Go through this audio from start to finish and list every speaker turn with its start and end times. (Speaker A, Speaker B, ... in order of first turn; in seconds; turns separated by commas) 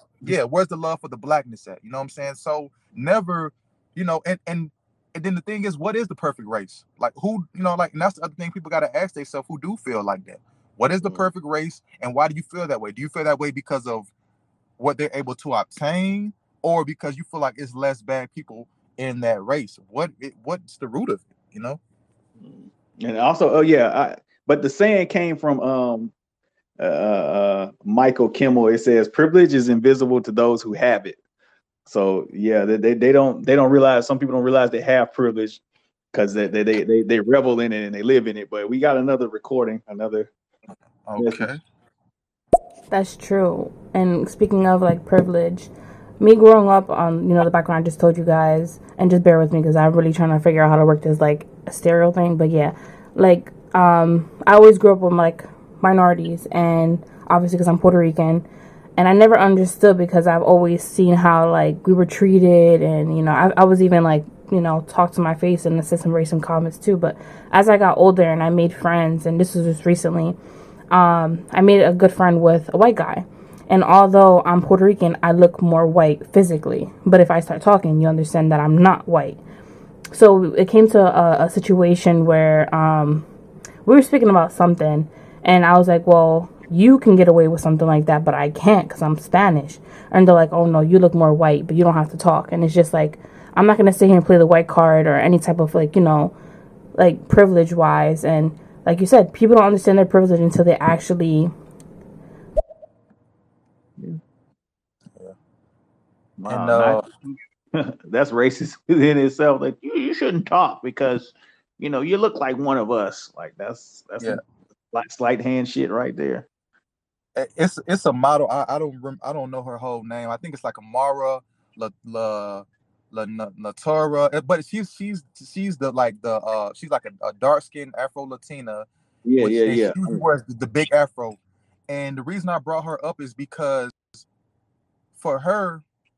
Speaker A: 0.2-14.1, Speaker B: 11.0-11.3, Speaker A: 14.8-21.8, Speaker B: 22.4-26.1, Speaker B: 26.8-31.2, Speaker B: 31.9-35.6, Speaker B: 36.1-40.3, Speaker A: 41.0-41.6, Speaker B: 41.2-41.5, Speaker C: 42.9-58.4, Speaker C: 59.0-70.3, Speaker C: 70.9-79.4, Speaker C: 80.1-83.2, Speaker C: 83.8-96.3, Speaker C: 97.0-101.5, Speaker B: 106.4-107.0, Speaker A: 106.5-107.0, Speaker B: 107.7-114.4, Speaker B: 114.9-116.5, Speaker A: 117.3-128.9, Speaker B: 129.2-130.2, Speaker A: 129.4-134.2, Speaker A: 135.2-135.8